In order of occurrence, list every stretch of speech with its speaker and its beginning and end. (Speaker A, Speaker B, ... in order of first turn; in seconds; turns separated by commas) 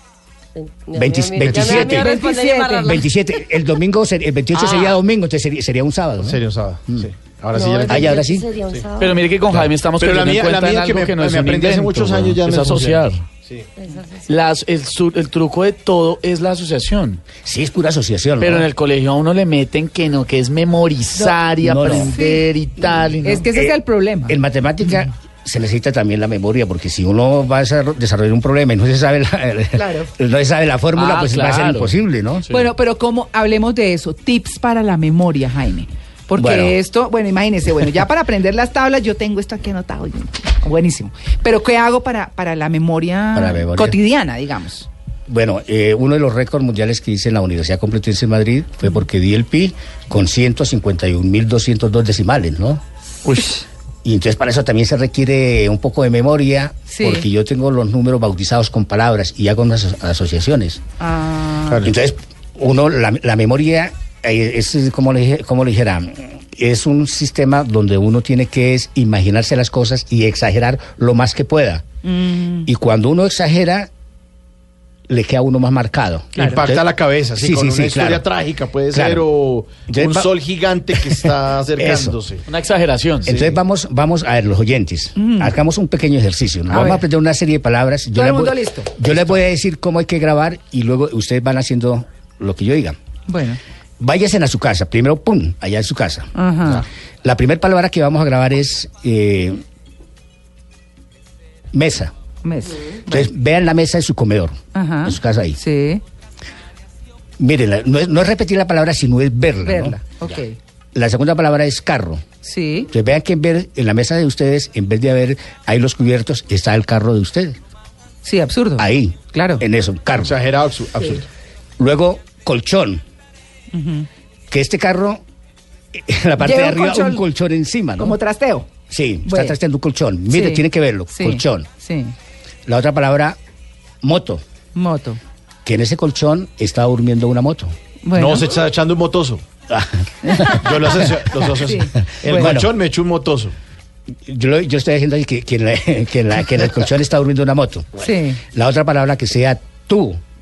Speaker A: 0.5-3.1, Speaker B: 0.9-2.1, Speaker C: 1.5-3.0, Speaker B: 2.8-7.1, Speaker D: 6.2-8.2, Speaker A: 7.5-9.2, Speaker B: 7.9-8.5, Speaker E: 9.0-13.2, Speaker D: 9.5-13.7, Speaker A: 13.8-14.3, Speaker E: 14.3-17.2, Speaker B: 17.4-18.7, Speaker E: 18.4-23.5, Speaker C: 21.1-22.4, Speaker B: 21.6-22.1, Speaker C: 23.2-24.4, Speaker B: 23.5-32.5, Speaker C: 29.7-30.1, Speaker E: 30.9-32.7, Speaker C: 32.5-44.9, Speaker B: 36.4-36.8, Speaker B: 43.3-44.0, Speaker B: 45.3-52.8, Speaker B: 54.0-60.8, Speaker C: 56.9-57.2, Speaker C: 61.0-61.8, Speaker B: 61.8-71.8, Speaker C: 72.0-72.7, Speaker B: 72.7-73.9, Speaker B: 75.1-76.8, Speaker C: 76.3-76.6, Speaker D: 76.4-82.4, Speaker B: 77.4-78.2, Speaker B: 78.9-79.2, Speaker B: 79.9-80.3, Speaker B: 81.0-82.2, Speaker E: 82.5-83.4, Speaker D: 83.3-83.6, Speaker B: 83.3-93.0, Speaker C: 85.2-85.5, Speaker C: 86.7-87.0, Speaker C: 88.1-88.9, Speaker C: 93.3-93.6, Speaker B: 94.0-99.6, Speaker C: 96.3-96.8, Speaker B: 101.7-102.1, Speaker C: 102.4-103.3, Speaker B: 103.1-105.6, Speaker C: 104.7-106.0, Speaker B: 107.4-110.0, Speaker C: 109.6-110.5, Speaker B: 110.9-112.2, Speaker C: 112.4-112.9, Speaker B: 112.9-117.6, Speaker C: 118.2-119.6, Speaker B: 118.8-120.4, Speaker D: 120.2-121.2, Speaker B: 121.8-123.0, Speaker C: 123.7-124.1, Speaker B: 124.5-125.2, Speaker B: 125.9-128.2, Speaker C: 126.4-127.2, Speaker C: 128.0-128.7, Speaker B: 128.9-131.7, Speaker C: 129.2-129.6, Speaker C: 130.3-132.1, Speaker B: 132.7-133.4, Speaker B: 134.0-134.4, Speaker C: 134.7-135.2, Speaker B: 135.6-137.7, Speaker C: 138.0-138.5, Speaker D: 138.1-139.4, Speaker B: 139.7-141.5, Speaker C: 140.2-140.6, Speaker D: 140.5-143.5, Speaker C: 141.6-142.5, Speaker B: 142.2-142.7, Speaker B: 144.2-150.2, Speaker C: 148.0-148.4